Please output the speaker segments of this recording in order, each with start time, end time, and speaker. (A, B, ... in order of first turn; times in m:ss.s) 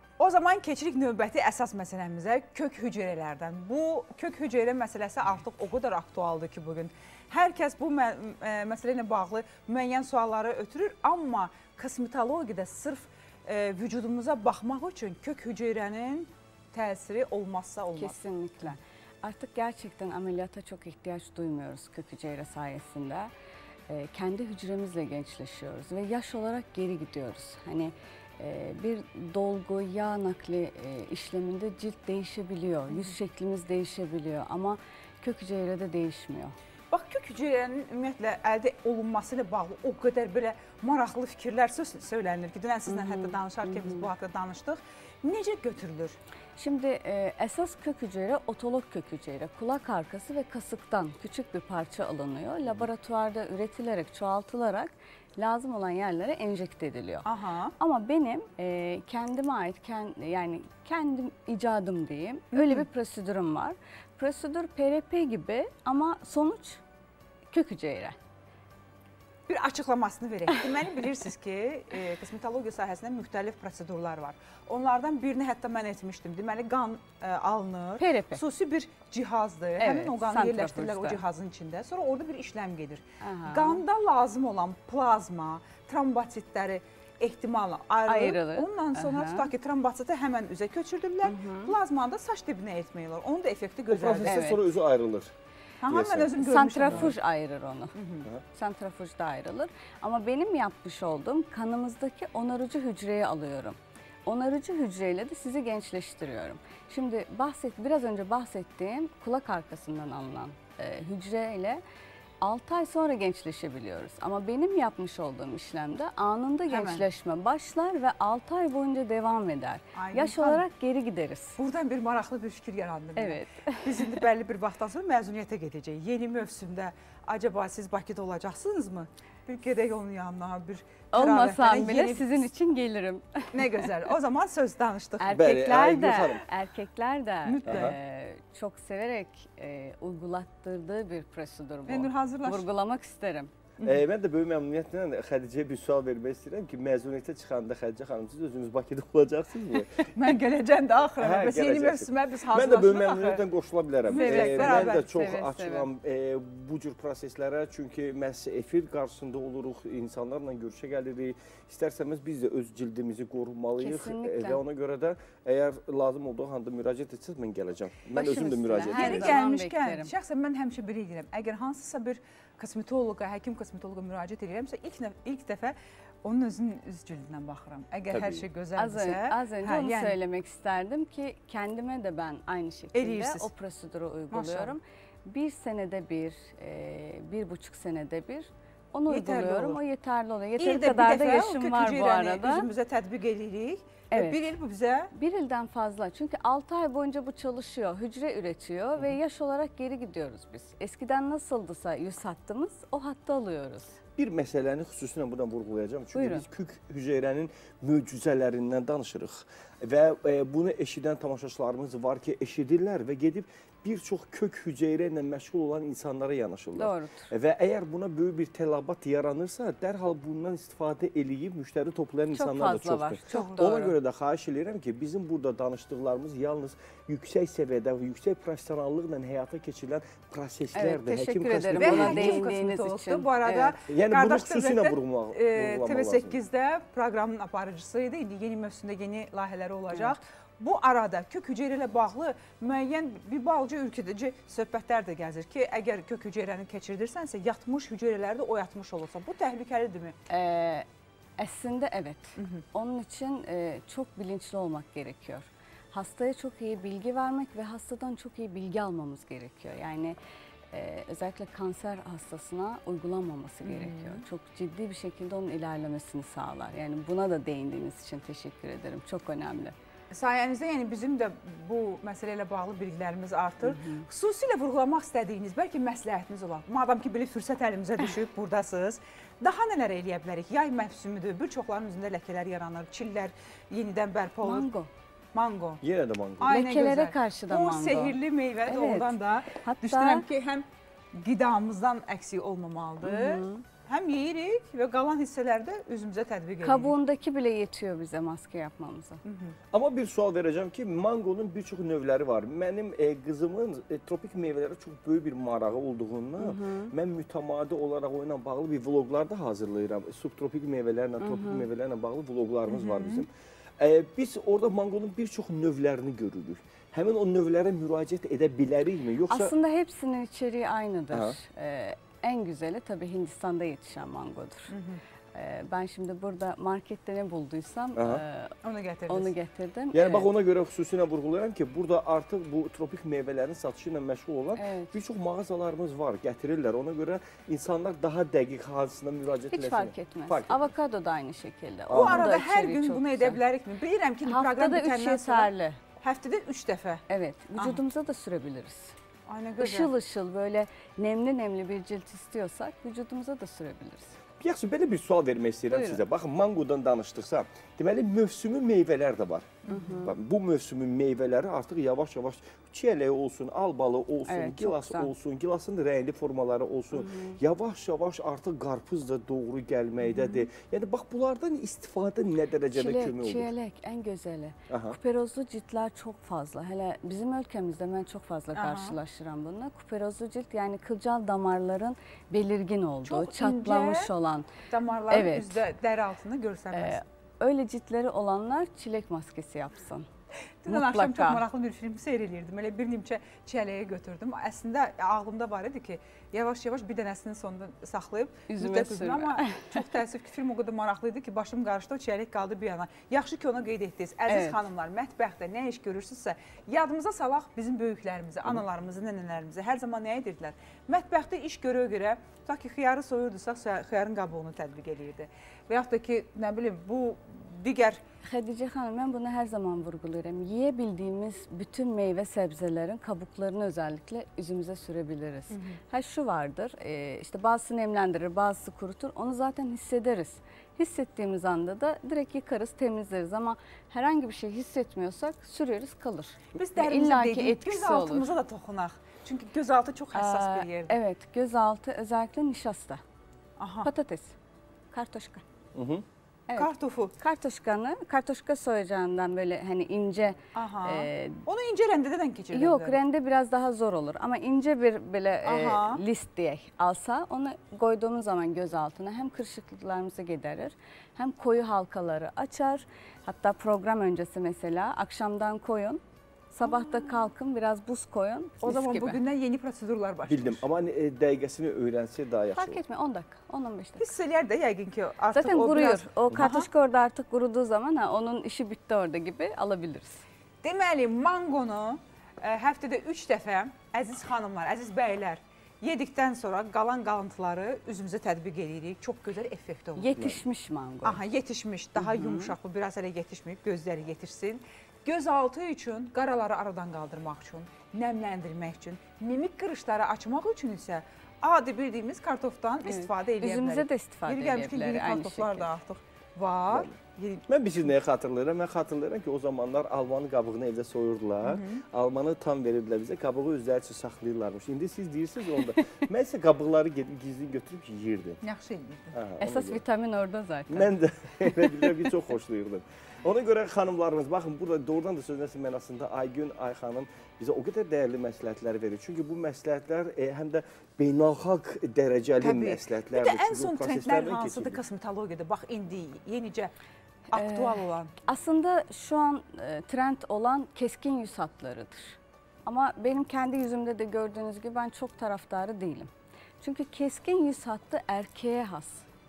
0:00.2-0:18.2 A
0:18.0-0:23.3 B
0:23.9-0:36.6 B
0:36.9-0:46.2 A
0:42.9-0:44.1 B
0:46.6-0:57.3 B
0:57.2-0:57.7 A
0:57.8-1:06.8 B
1:02.5-1:02.9 A
1:07.5-1:08.2 B
1:09.5-1:34.5 A
1:18.0-1:18.4 B
1:19.8-1:21.2 B
1:23.2-1:23.8 B
1:28.1-1:29.5 B
1:31.2-1:31.8 B
1:33.9-1:35.3 C
1:34.2-1:34.6 B
1:35.8-1:37.2 A
1:35.9-1:37.1 C
1:36.4-1:38.0 B
1:38.0-1:38.3 A
1:38.5-1:51.8 B
1:52.4-2:01.6 B
1:56.7-1:57.0 A
2:00.0-2:00.6 A
2:01.6-2:12.5 A
2:03.2-2:04.2 B
2:11.1-2:13.9 B
2:13.5-2:16.4 A
2:15.2-2:23.5 B
2:15.3-2:16.4 C
2:17.4-2:18.0 A
2:17.7-2:18.0 C
2:21.9-2:22.7 A
2:23.8-2:30.0 C
2:30.1-2:33.5 A
2:31.2-2:49.4 C
2:34.1-2:35.1 A
2:34.1-2:35.9 B
2:43.8-2:44.6 B
2:48.1-2:50.1 B
2:48.9-3:00.2 A
2:58.1-2:58.5 C
2:58.8-3:12.7 B
3:02.9-3:03.5 A
3:04.3-3:04.8 A
3:09.1-3:09.8 A
3:10.6-3:15.1 A
3:14.1-3:14.4 B
3:15.1-3:24.0 B
3:24.2-3:52.4 C
3:26.1-3:26.4 B
3:36.8-3:37.3 B
3:42.3-3:44.0 B
3:50.7-3:53.8 B
3:51.7-4:10.2 A
3:53.9-3:56.4 C
3:59.9-4:00.2 B
4:10.3-4:10.9 B
4:11.4-4:20.2 B
4:12.4-4:12.6 A
4:20.7-4:29.8 B
4:23.6-4:24.2 A
4:30.1-4:44.7 A
4:33.6-4:34.1 B
4:44.4-4:44.9 B
4:45.3-4:45.8 A
4:45.8-4:46.6 C
4:46.4-4:56.9 A
4:46.5-4:50.3 B
4:53.0-4:53.6 B
4:56.6-4:59.2 B
4:59.2-4:59.6 A
4:59.7-5:19.5 C
5:06.4-5:06.9 B
5:11.2-5:11.7 B
5:12.7-5:13.2 A
5:19.3-5:24.7 B
5:21.1-5:21.4 C
5:24.7-5:25.0 A
5:25.3-5:28.6 B
5:28.0-5:28.2 C
5:28.6-5:29.3 A
5:29.1-5:30.3 B
5:29.9-5:40.7 C
5:34.6-5:35.0 B
5:39.5-5:43.4 B
5:41.9-5:42.3 C
5:41.9-5:47.0 A
5:44.2-5:45.8 B
5:47.1-5:49.0 B
5:49.3-5:49.9 A
5:49.6-5:54.2 B
5:54.4-6:13.5 C
5:55.7-5:56.0 B
5:59.7-6:00.2 B
6:04.3-6:05.1 B
6:06.9-6:07.4 B
6:12.7-6:24.5 B
6:14.7-6:15.0 C
6:18.6-6:19.0 A
6:23.0-6:24.1 A
6:24.7-6:27.0 A
6:25.1-6:25.6 B
6:26.7-6:30.1 B
6:30.6-6:58.0 A
6:30.7-6:31.4 B
6:38.5-6:39.9 B
6:44.3-6:44.6 B
6:58.2-7:18.3 B
7:05.5-7:05.8 A
7:16.6-7:21.0 A
7:20.1-7:23.0 B
7:23.6-7:23.9 A
7:23.8-7:24.4 B
7:24.9-7:25.4 B
7:25.8-7:26.0 C
7:26.5-7:31.4 B
7:26.6-7:27.1 A
7:30.6-7:33.0 A
7:32.5-7:46.0 B
7:35.4-7:36.0 A
7:46.5-7:49.2 B
7:48.6-7:50.6 A
7:50.3-7:52.8 C
7:52.6-7:54.1 B
7:54.0-7:56.7 A
7:55.3-8:00.2 B
8:00.6-8:10.2 A
8:10.0-8:11.2 B
8:11.0-8:27.5 A
8:12.0-8:12.5 B
8:22.8-8:25.7 B
8:27.5-8:38.4 C
8:31.4-8:31.8 A
8:38.4-8:39.2 A
8:39.1-8:39.8 C
8:39.4-8:42.0 B
8:40.7-8:54.8 C
8:52.4-8:56.7 A
8:57.3-8:58.1 A
8:57.3-9:09.1 B